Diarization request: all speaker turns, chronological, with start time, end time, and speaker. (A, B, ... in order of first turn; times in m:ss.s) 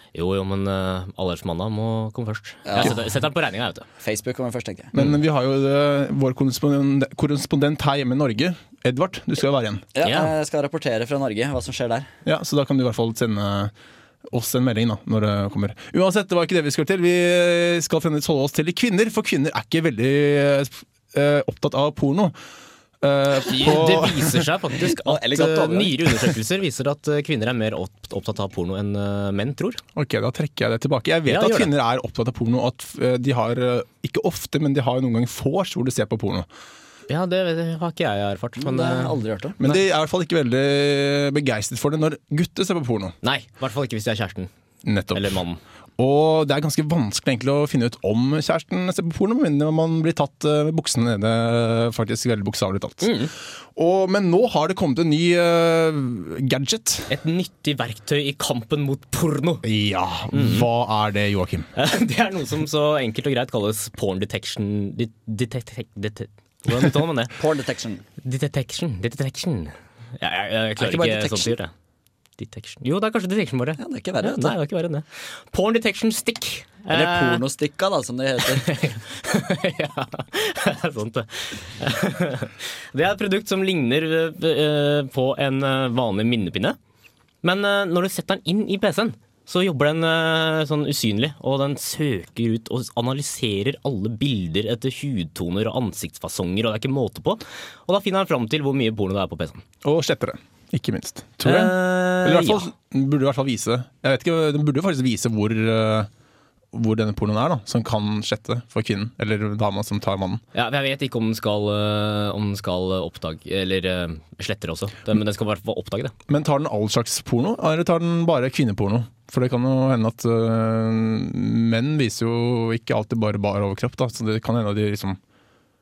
0:00.1-0:03.9 A
0:02.6-0:03.0 B
0:04.0-0:04.9 B
0:04.9-0:09.9 C
0:09.9-0:12.1 B
0:10.0-0:10.3 A
0:12.2-0:13.7 C
0:14.3-0:22.4 C
0:23.0-0:24.4 C
0:23.4-0:29.8 A
0:25.0-0:26.2 B
0:30.0-0:36.5 C
0:31.3-0:31.7 A
0:37.1-0:39.8 A
0:38.6-0:39.6 B
0:39.6-0:43.1 C
0:43.2-0:44.5 A
0:44.8-0:45.4 C
0:45.1-0:45.6 A
0:46.0-0:53.1 C
0:53.0-0:53.3 A
0:53.7-0:57.1 C
0:57.1-0:59.6 A
0:59.6-1:01.7 C
1:00.3-1:00.7 A
1:01.7-1:07.4 A
1:07.4-1:08.0 B
1:08.2-1:11.7 A
1:10.8-1:11.6 B
1:12.4-1:17.4 A
1:13.8-1:14.5 B
1:16.9-1:18.7 B
1:18.4-1:26.8 A
1:27.4-1:39.6 A
1:39.8-1:46.1 C
1:41.4-1:42.7 A
1:46.7-1:50.4 C
1:50.5-1:56.1 A
1:56.3-2:05.2 C